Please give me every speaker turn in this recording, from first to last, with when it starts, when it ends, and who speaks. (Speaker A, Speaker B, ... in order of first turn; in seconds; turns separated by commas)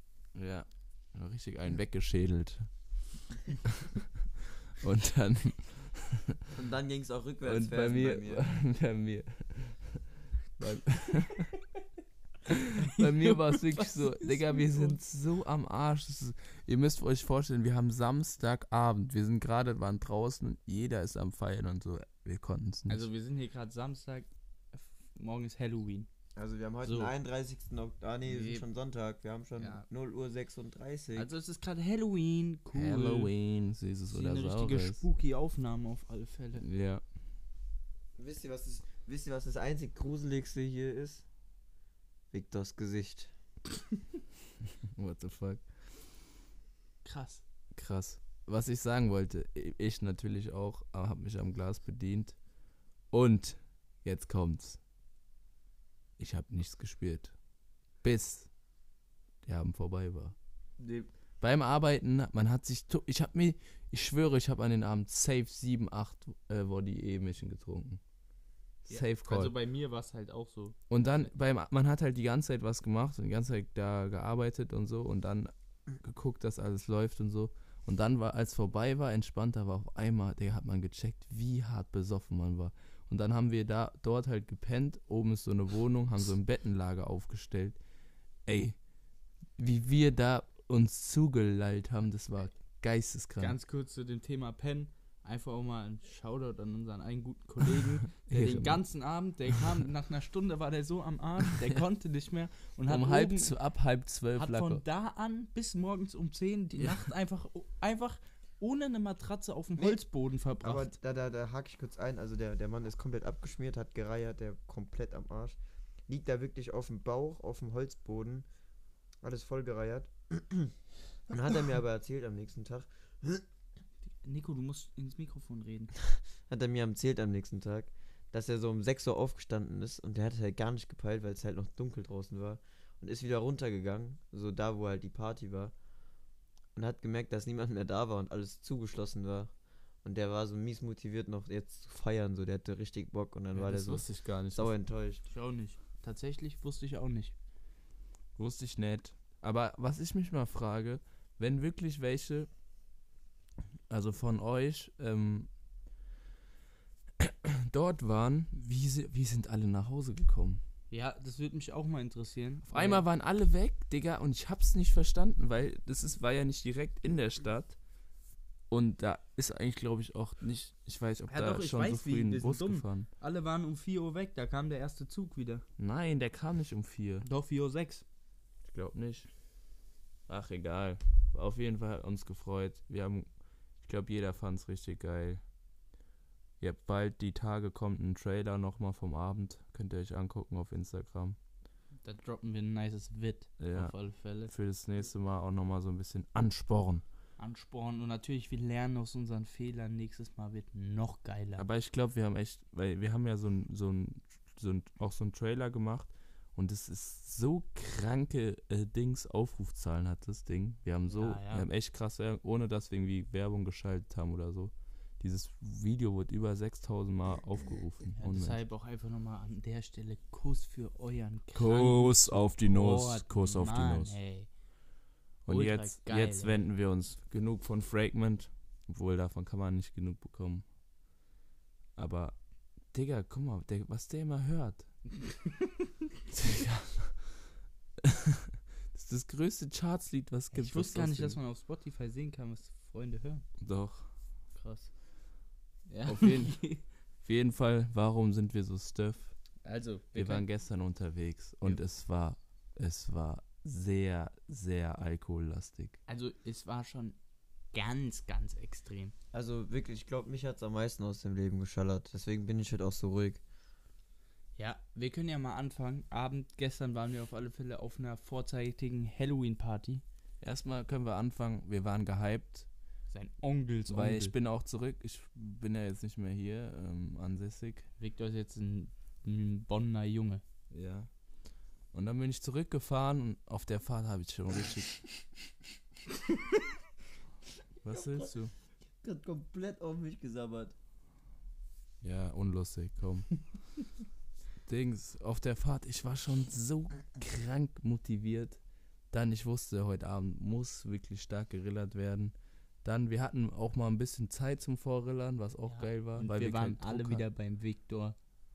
Speaker A: 0.3-2.7, Speaker A: 4.8-6.3, Speaker B: 6.5-8.4, Speaker A: 7.4-10.0, Speaker A: 10.6-11.5, Speaker A: 12.4-23.1, Speaker C: 12.8-15.0, Speaker C: 22.9-26.1, Speaker B: 26.4-31.3, Speaker C: 26.8-27.1, Speaker C: 28.3-28.6, Speaker C: 29.6-29.9, Speaker C: 31.1-33.3, Speaker A: 32.7-35.0, Speaker C: 34.1-36.6, Speaker A: 36.6-37.0, Speaker B: 38.2-41.2, Speaker B: 42.3-43.3, Speaker A: 44.9-45.8, Speaker C: 47.0-47.4, Speaker A: 47.7-52.4, Speaker A: 53.1-54.8, Speaker A: 56.2-57.3, Speaker A: 58.0-58.5, Speaker A: 59.4-60.3, Speaker C: 60.8-61.1, Speaker A: 61.4-68.0, Speaker A: 68.9-69.5, Speaker C: 68.9-71.2, Speaker A: 70.9-87.8, Speaker A: 88.5-88.8, Speaker A: 89.6-93.5, Speaker C: 93.4-103.5, Speaker A: 98.2-98.8, Speaker A: 102.9-104.8, Speaker C: 104.3-111.0, Speaker B: 110.6-118.5, Speaker B: 119.2-120.7, Speaker B: 121.3-123.4, Speaker C: 124.2-125.9, Speaker B: 126.5-135.7, Speaker B: 136.7-139.5, Speaker B: 140.0-145.2, Speaker A: 143.5-144.7, Speaker C: 145.3-147.3, Speaker A: 148.4-152.5, Speaker A: 153.9-155.5, Speaker A: 157.2-160.6, Speaker C: 160.9-163.0, Speaker A: 162.7-167.8, Speaker A: 168.7-173.1, Speaker C: 171.3-175.6, Speaker A: 175.8-177.2, Speaker C: 177.2-178.0, Speaker A: 178.6-179.3, Speaker A: 180.3-185.4, Speaker A: 186.6-191.4, Speaker C: 192.0-194.5, Speaker A: 193.6-197.0, Speaker C: 197.4-201.6, Speaker A: 201.6-218.6, Speaker C: 211.1-211.7, Speaker C: 218.2-224.5, Speaker A: 221.5-224.2, Speaker A: 225.4-230.6, Speaker C: 225.5-226.6, Speaker A: 231.9-234.9, Speaker C: 235.2-235.7, Speaker A: 236.3-237.5, Speaker A: 238.9-241.4, Speaker C: 240.5-243.4, Speaker A: 243.6-244.1, Speaker C: 244.5-244.9, Speaker C: 245.9-246.8, Speaker A: 246.1-249.4, Speaker C: 249.6-250.4, Speaker A: 250.1-256.0, Speaker C: 256.1-257.2, Speaker C: 257.7-259.1, Speaker B: 259.3-263.4, Speaker C: 264.6-270.0, Speaker A: 270.4-272.7, Speaker C: 273.1-274.3, Speaker A: 273.9-277.9, Speaker C: 278.0-280.4, Speaker A: 280.7-281.1, Speaker A: 281.9-285.0, Speaker A: 287.8-288.5, Speaker B: 287.9-288.3, Speaker B: 289.0-290.7, Speaker A: 292.0-293.4, Speaker A: 294.6-298.6, Speaker A: 299.1-307.2, Speaker C: 305.6-308.1